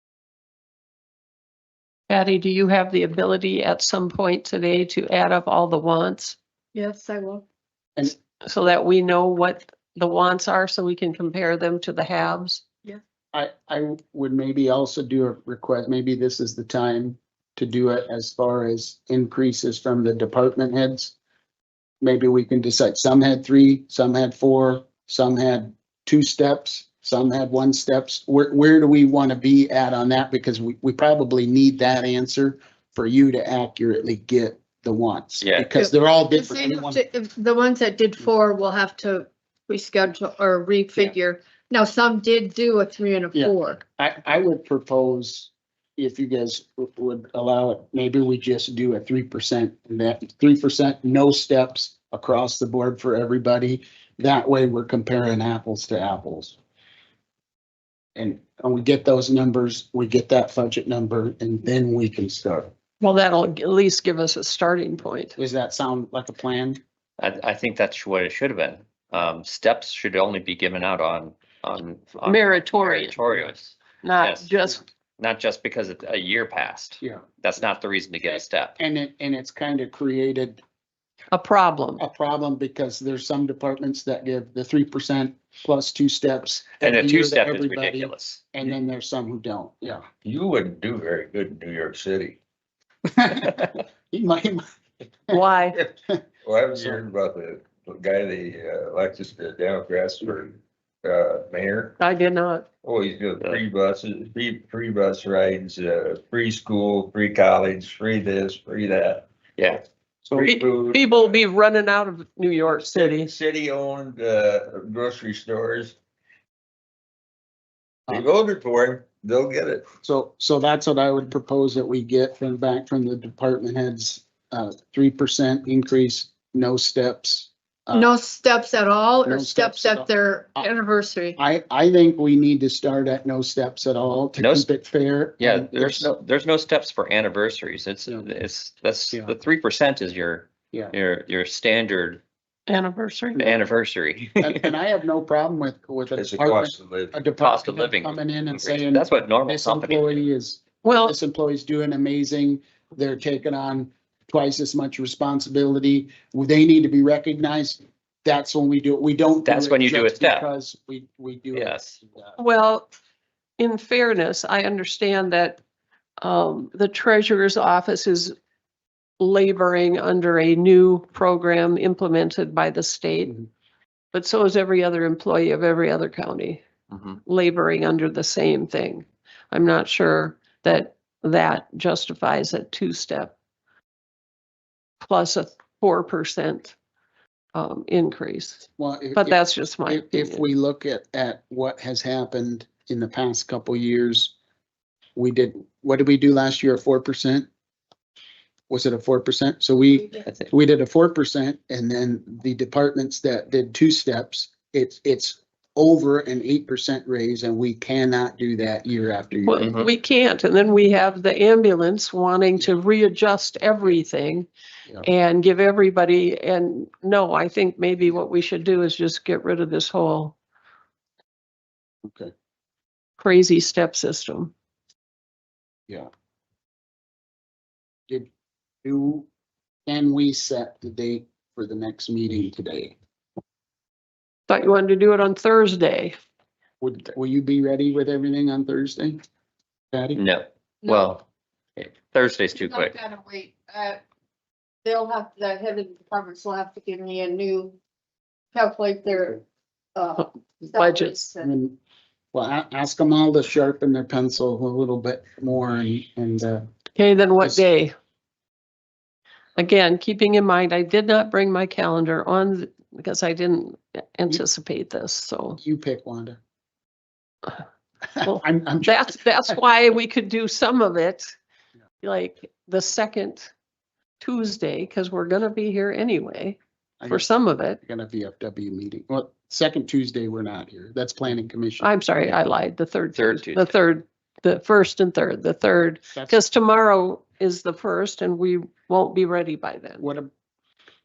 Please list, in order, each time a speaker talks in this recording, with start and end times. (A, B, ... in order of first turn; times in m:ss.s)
0:02.1-0:06.4 A
0:06.7-0:07.4 B
0:08.4-0:12.6 A
0:13.3-0:21.1 C
0:22.0-0:37.0 C
0:35.4-0:35.7 D
0:35.8-0:43.8 B
0:43.3-0:56.6 C
0:58.2-1:02.7 C
1:03.0-1:05.3 A
1:05.4-1:06.8 C
1:07.2-1:14.5 D
1:12.2-1:13.2 A
1:14.0-1:14.8 A
1:15.2-1:18.8 D
1:18.3-1:20.6 C
1:21.3-1:22.0 A
1:22.0-1:30.0 C
1:26.8-1:28.5 D
1:30.2-1:32.4 E
1:33.1-1:34.6 C
1:35.3-1:35.8 A
1:36.4-1:42.0 E
1:36.7-1:37.0 C
1:42.0-1:42.6 A
1:42.8-1:49.3 E
1:50.2-1:51.3 E
1:50.4-1:53.3 A
1:52.8-1:56.0 E
1:58.1-1:59.8 E
2:00.0-2:08.1 C
2:07.9-2:11.4 B
2:09.2-2:10.7 C
2:11.4-2:16.1 C
2:14.4-2:14.7 D
2:15.4-2:22.2 D
2:22.7-2:23.4 A
2:23.4-2:23.7 C
2:23.4-2:24.7 D
2:24.4-2:42.4 C
2:26.1-2:27.2 E
2:27.4-2:30.2 D
2:30.8-2:31.1 A
2:39.4-2:40.5 D
2:41.5-2:42.0 D
2:42.4-2:42.9 A
2:43.6-2:45.6 A
2:46.2-2:48.3 A
2:49.2-2:53.4 A
2:54.1-2:56.6 A
2:56.9-2:57.2 D
2:57.2-3:03.3 A
3:05.0-3:06.8 A
3:07.5-3:10.4 A
3:08.8-3:14.3 C
3:15.1-3:17.5 C
3:18.7-3:29.9 C
3:29.5-3:34.5 A
3:29.6-3:29.9 D
3:35.0-3:40.4 A
3:42.0-3:42.3 C
3:43.2-3:44.5 A
3:48.8-3:49.3 C
3:49.9-3:53.0 C
3:54.5-3:56.1 A
3:56.8-3:59.2 C
3:59.9-4:00.2 C
4:00.1-4:01.2 D
4:00.8-4:01.1 B
4:01.8-4:03.0 D
4:02.6-4:04.0 B
4:04.8-4:07.8 B
4:08.5-4:09.4 B
4:09.9-4:11.5 B
4:10.2-4:11.3 A
4:11.4-4:11.8 C
4:12.3-4:16.6 C
4:17.0-4:17.9 A
4:19.6-4:25.6 A
4:25.6-4:26.4 C
4:28.1-4:29.5 C
4:28.2-4:31.3 A
4:32.0-4:33.5 A
4:34.2-4:37.8 A
4:37.0-4:37.3 C
4:37.8-4:42.4 C
4:41.8-4:50.1 A
4:43.1-4:43.7 D
4:46.1-4:46.4 C
4:50.0-4:50.3 C